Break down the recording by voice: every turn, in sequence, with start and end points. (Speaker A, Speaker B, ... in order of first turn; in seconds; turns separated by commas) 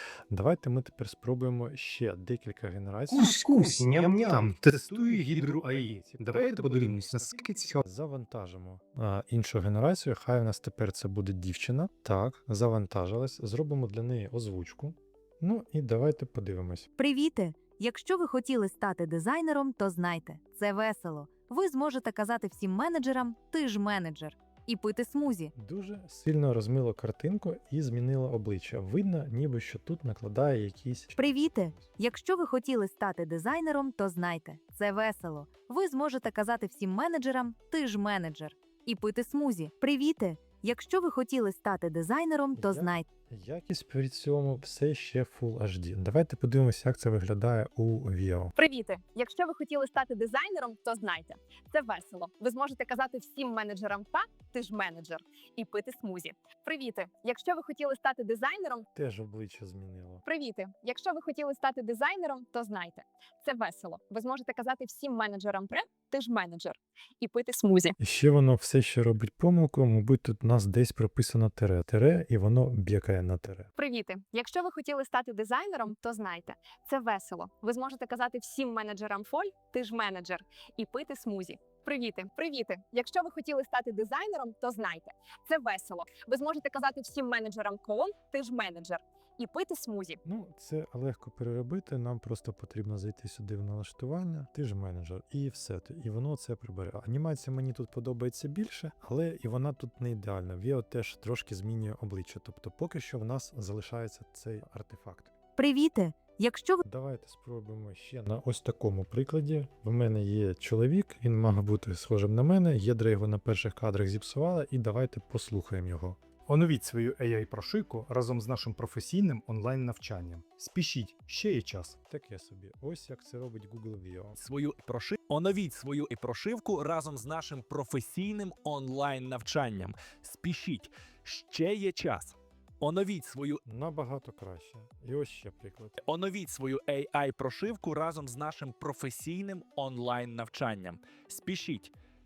Speaker A: 0.3-16.9, Speaker B: 3.1-7.8, Speaker C: 17.0-25.5, Speaker A: 25.6-31.8, Speaker C: 31.1-43.0, Speaker A: 42.5-48.5, Speaker D: 48.6-58.9, Speaker A: 59.0-60.2, Speaker D: 60.2-68.0, Speaker A: 68.0-73.7, Speaker D: 73.8-90.2, Speaker A: 90.2-105.3, Speaker C: 105.6-106.8, Speaker A: 106.8-116.2, Speaker B: 116.5-122.0, Speaker A: 122.0-124.4, Speaker E: 124.4-133.6, Speaker A: 133.6-135.9, Speaker E: 136.0-141.9